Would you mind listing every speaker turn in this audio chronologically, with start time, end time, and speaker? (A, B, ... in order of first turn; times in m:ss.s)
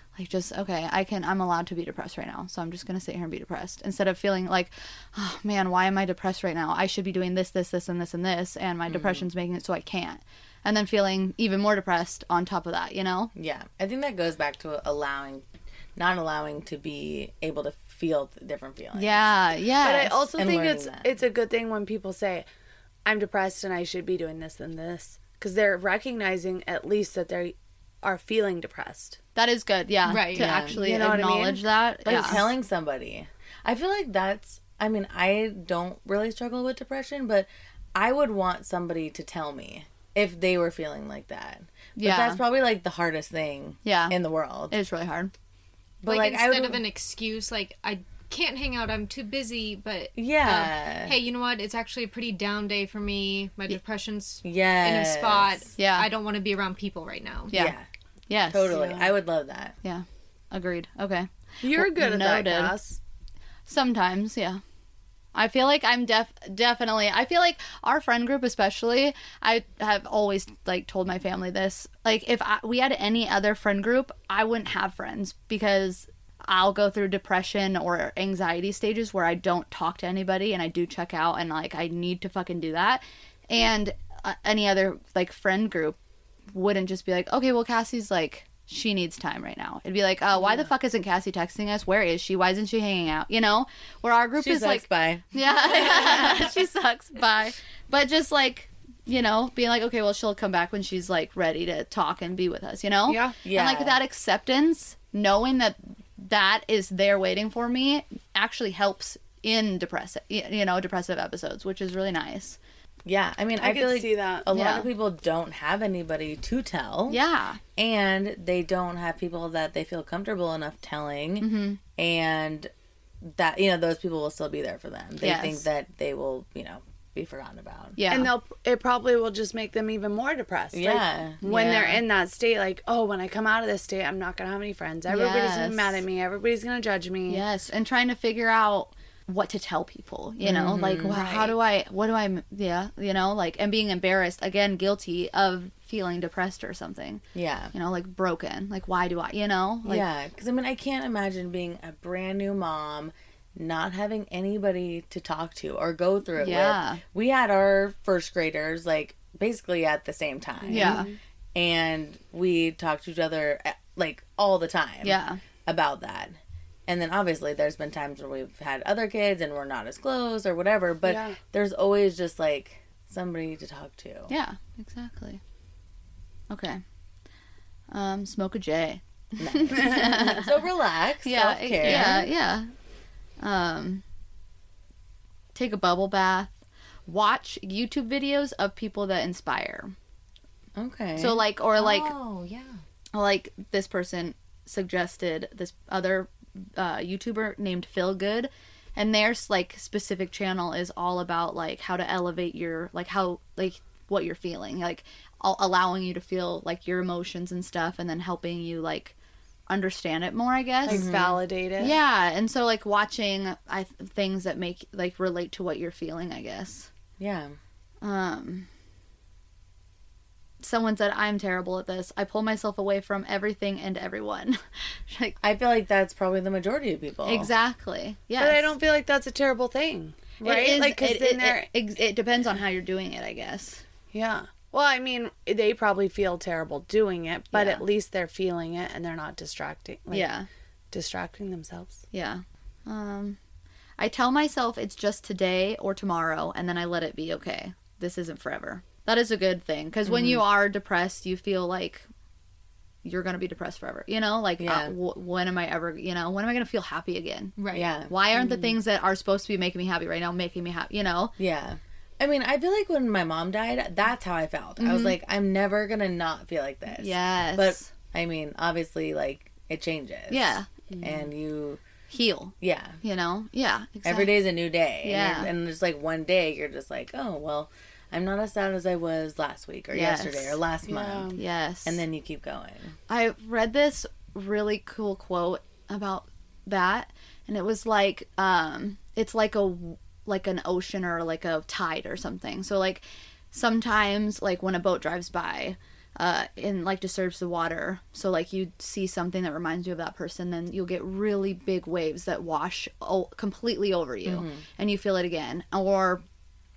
0:00.2-0:13.3 A
0:08.9-0:09.2 B
0:13.3-0:19.3 B
0:19.0-0:20.2 A
0:19.8-0:22.5 C
0:20.4-0:21.1 B
0:23.0-0:29.2 C
0:29.4-0:32.4 A
0:30.1-0:30.5 D
0:30.4-0:30.8 B
0:30.4-0:32.4 C
0:32.1-0:44.8 B
0:42.0-0:42.4 A
0:43.8-0:44.2 A
0:44.7-0:45.3 A
0:46.0-0:46.8 B
0:46.1-0:57.5 D
0:50.2-0:51.2 B
0:54.4-0:55.6 B
0:55.8-0:56.1 A
0:57.5-0:57.8 A
0:57.5-0:57.9 B
0:58.3-0:58.8 A
0:58.5-0:59.8 B
0:58.7-0:59.1 C
0:59.8-1:02.8 A
1:01.6-1:03.0 C
1:03.7-1:04.6 A
1:05.4-1:26.0 A
1:26.5-1:52.6 A
1:34.4-1:36.5 B
1:43.1-1:43.4 C
1:43.4-1:44.0 B
1:53.0-1:57.2 B
1:53.6-1:54.5 C
1:54.5-1:54.9 A
1:57.1-1:57.6 A
1:57.8-2:02.7 B
2:01.4-2:01.8 A
2:03.2-2:08.0 B
2:05.2-2:05.7 A
2:08.0-2:08.3 A
2:08.1-2:17.4 C
2:10.7-2:11.4 B
2:11.4-2:12.0 A
2:15.1-2:16.0 A
2:17.3-2:27.2 A
2:20.4-2:21.2 B
2:21.1-2:21.6 C
2:27.3-2:27.7 B
2:27.7-2:30.0 A
2:29.8-2:54.3 B
2:36.4-2:37.0 A
2:40.7-2:41.2 C
2:40.7-2:41.1 A
2:45.0-2:45.4 A
2:51.0-2:51.4 C
2:54.3-2:55.4 A
2:56.5-2:56.8 A
2:57.9-3:00.6 A
2:59.4-3:02.3 B
3:01.2-3:02.7 A
3:03.4-3:04.0 A
3:05.6-3:06.5 A
3:07.1-3:09.9 A
3:10.8-3:11.4 B
3:11.2-3:12.1 A
3:11.8-3:12.8 D
3:13.1-3:29.2 A
3:29.7-3:31.1 A
3:30.8-3:32.0 C
3:30.9-3:31.4 B
3:31.8-3:36.9 A
3:37.2-3:37.6 B
3:38.0-3:38.7 A
3:40.6-3:45.4 A
3:45.4-3:47.5 B
3:47.3-3:48.8 A
3:48.4-3:51.7 C
3:50.4-3:53.8 A
3:54.1-4:00.3 C
3:57.5-3:57.8 A
4:00.1-4:00.5 A
4:00.9-4:02.0 C
4:02.1-4:03.4 A
4:04.0-4:12.1 A
4:10.0-4:10.4 B
4:13.0-4:17.6 A
4:14.6-4:14.9 B
4:17.6-4:17.9 D
4:17.7-4:18.1 B
4:18.1-4:21.4 A
4:18.4-4:18.7 C
4:21.4-4:31.8 B
4:24.8-4:25.2 A
4:27.0-4:27.9 A
4:30.3-4:30.7 A
4:30.9-4:31.2 C
4:32.1-4:34.4 A
4:32.6-4:33.0 B
4:34.0-4:43.0 B
4:35.0-4:35.5 A
4:39.9-4:40.6 A
4:40.9-4:41.4 C
4:41.4-4:42.0 A
4:43.1-5:06.2 A
5:04.2-5:04.6 B